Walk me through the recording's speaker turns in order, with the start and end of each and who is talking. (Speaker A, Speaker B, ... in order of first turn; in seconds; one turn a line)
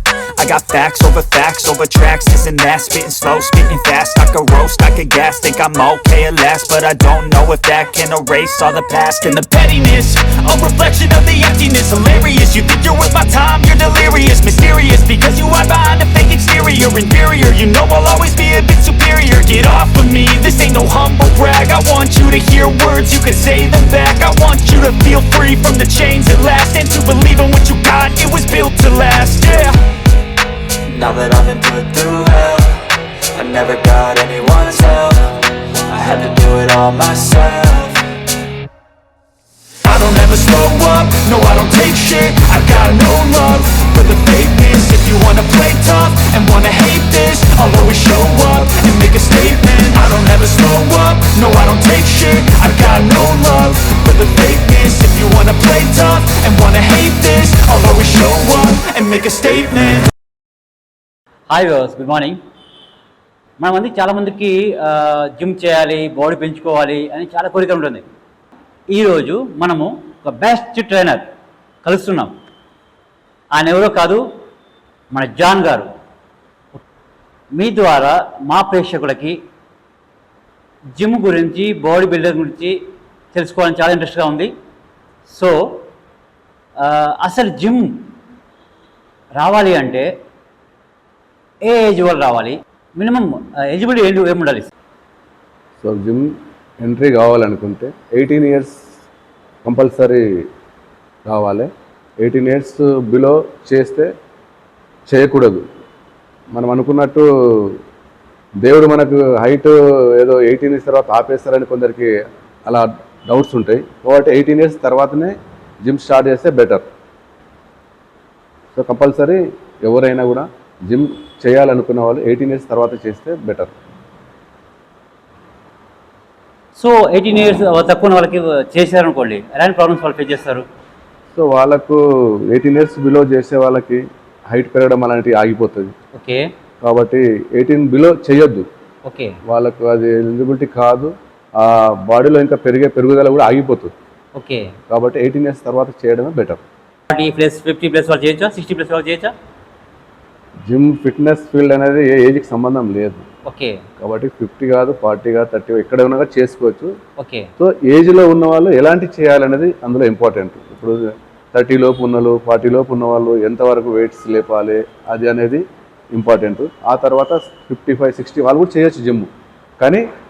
Speaker A: 0.4-29.8
Speaker A: 30.9-38.1
Speaker A: 39.8-60.1
Speaker B: 61.5-62.4
Speaker B: 63.6-68.0
Speaker B: 68.9-71.2
Speaker B: 71.8-72.3
Speaker B: 73.5-74.2
Speaker B: 75.1-75.9
Speaker B: 77.5-79.4
Speaker B: 80.9-82.8
Speaker B: 83.3-84.5
Speaker B: 85.3-85.8
Speaker B: 86.8-87.9
Speaker B: 89.3-90.1
Speaker B: 91.6-94.7
Speaker C: 95.8-96.3
Speaker C: 96.8-98.8
Speaker C: 99.6-100.2
Speaker C: 101.2-101.7
Speaker C: 102.2-104.1
Speaker C: 105.1-105.6
Speaker C: 106.5-107.8
Speaker C: 108.6-112.1
Speaker C: 112.7-116.8
Speaker C: 118.7-123.7
Speaker B: 126.7-130.6
Speaker C: 131.3-135.9
Speaker B: 136.1-136.5
Speaker C: 136.8-138.6
Speaker B: 139.0-139.4
Speaker C: 139.4-143.9
Speaker B: 144.3-144.7
Speaker C: 144.9-146.6
Speaker B: 147.1-149.3
Speaker C: 150.7-153.2
Speaker B: 153.4-153.8
Speaker C: 154.0-156.9
Speaker B: 157.2-157.5
Speaker C: 157.6-161.0
Speaker C: 161.5-169.3